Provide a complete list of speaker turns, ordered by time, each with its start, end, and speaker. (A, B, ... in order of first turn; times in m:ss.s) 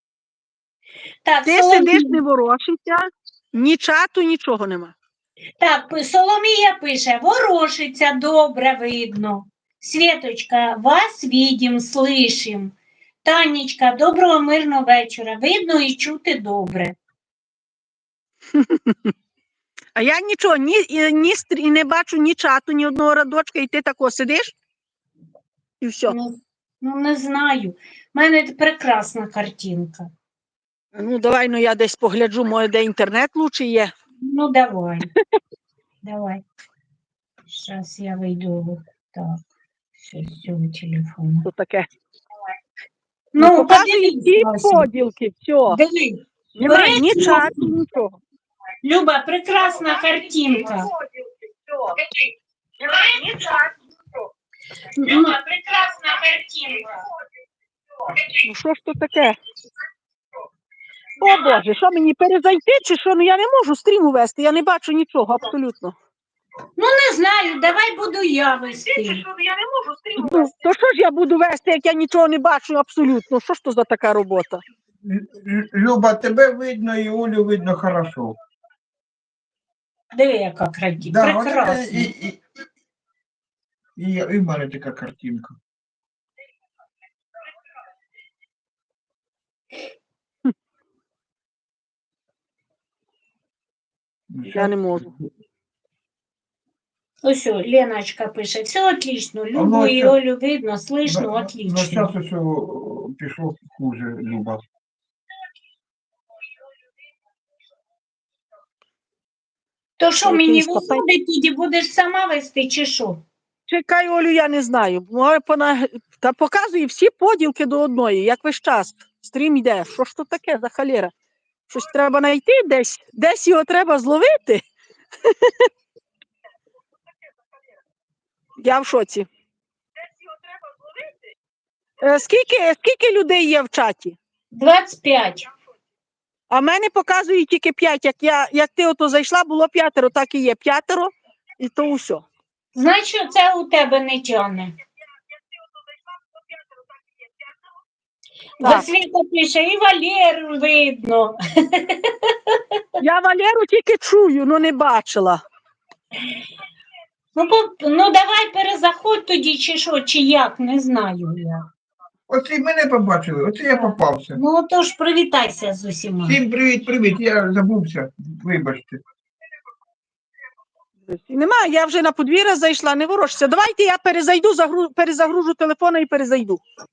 0:01.2-0:02.2 A
0:01.4-0:05.0 B
0:05.6-0:17.0 A
0:18.6-0:19.1 B
0:20.0-0:24.6 B
0:25.8-0:26.2 B
0:26.1-0:30.1 A
0:31.0-0:33.9 B
0:34.2-0:35.1 A
0:36.0-0:36.4 A
0:37.5-0:39.4 A
0:40.0-0:41.5 A
0:41.4-0:41.9 B
0:43.3-0:44.9 A
0:43.4-0:45.8 B
0:45.7-0:47.7 A
0:46.6-0:48.2 B
0:48.8-0:50.9 A
0:50.6-0:51.9 B
0:52.8-0:53.7 B
0:52.8-0:53.3 A
0:55.0-0:57.1 A
0:58.4-0:59.4 B
1:01.2-1:06.0 B
1:06.8-1:09.2 A
1:08.9-1:14.6 B
1:15.0-1:18.4 C
1:20.1-1:22.1 A
1:21.0-1:22.4 C
1:24.0-1:25.6 C
1:34.3-1:35.0 C
1:34.5-1:35.1 B
1:37.2-1:42.1 A
1:39.5-1:40.2 C
1:41.0-1:44.6 C
1:50.0-1:53.2 A
1:50.2-1:51.0 B
1:53.7-2:01.1 B
2:01.7-2:04.6 B
2:08.6-2:09.3 B
2:12.0-2:14.2 B
2:14.5-2:15.5 A
2:16.5-2:22.3 B
2:22.7-2:24.7 A
2:28.6-2:28.9 B
2:28.6-2:32.6 A
2:33.0-2:35.4 B
2:37.4-2:41.6 A
2:42.3-2:44.4 C
2:43.8-2:46.4 A
2:46.3-2:49.0 C
2:51.1-2:56.6 B